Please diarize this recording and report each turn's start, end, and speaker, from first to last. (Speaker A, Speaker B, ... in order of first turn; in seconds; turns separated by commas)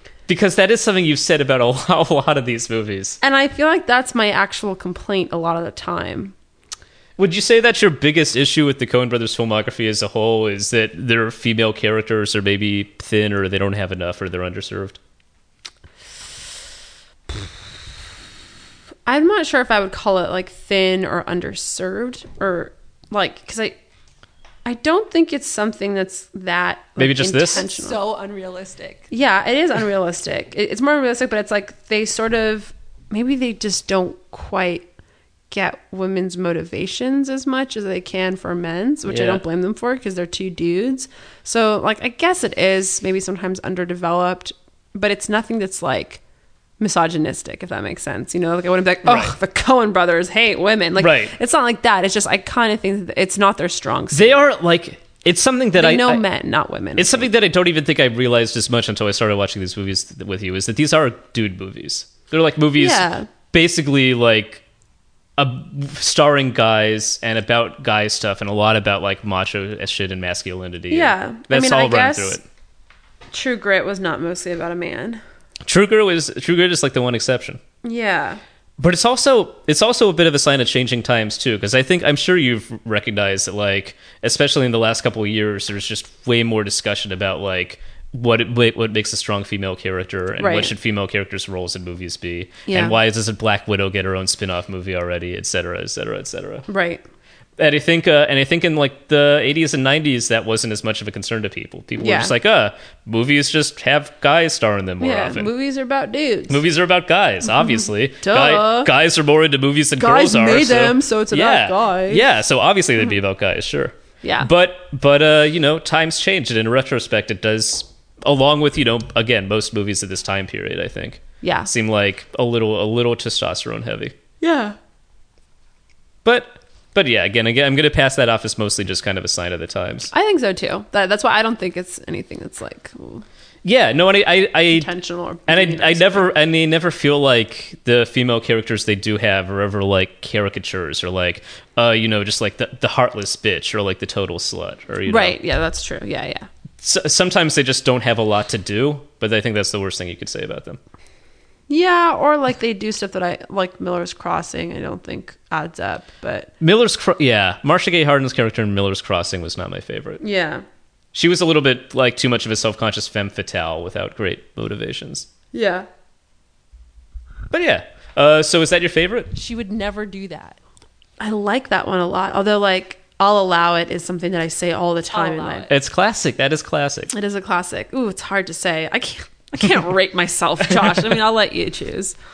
Speaker A: 0.3-3.2, Speaker B: 3.2-6.3, Speaker A: 7.2-15.0, Speaker B: 19.1-23.8, Speaker B: 24.6-28.0, Speaker A: 27.0-27.6, Speaker C: 27.5-29.1, Speaker B: 29.1-34.9, Speaker B: 35.5-46.2, Speaker A: 39.1-39.4, Speaker B: 46.8-54.4, Speaker A: 49.0-49.3, Speaker A: 51.0-51.3, Speaker A: 54.1-56.2, Speaker B: 55.8-57.3, Speaker A: 57.0-64.6, Speaker B: 62.7-63.3, Speaker A: 65.4-72.4, Speaker B: 70.9-72.4, Speaker B: 73.3-75.2, Speaker A: 75.6-77.6, Speaker B: 77.8-78.4, Speaker A: 78.8-96.6, Speaker B: 90.4-90.7, Speaker B: 92.7-93.0, Speaker B: 96.7-97.0, Speaker A: 97.6-105.5, Speaker B: 102.0-102.3, Speaker B: 105.0-106.6, Speaker A: 106.5-124.1, Speaker B: 107.6-108.9, Speaker B: 110.0-112.3, Speaker B: 114.2-114.5, Speaker B: 121.4-121.7, Speaker B: 124.4-124.8, Speaker A: 126.2-130.1, Speaker B: 130.1-133.2, Speaker A: 133.6-134.9, Speaker B: 134.7-136.3, Speaker A: 135.5-145.4, Speaker B: 145.1-146.5, Speaker A: 146.8-150.8, Speaker B: 151.7-156.5, Speaker A: 156.6-160.2, Speaker B: 160.2-160.6, Speaker A: 161.1-165.3, Speaker B: 165.5-165.9, Speaker A: 167.5-169.3, Speaker C: 169.3-170.6, Speaker B: 171.2-175.7, Speaker C: 175.1-175.7, Speaker A: 175.7-177.1, Speaker B: 177.1-182.2, Speaker A: 180.7-181.1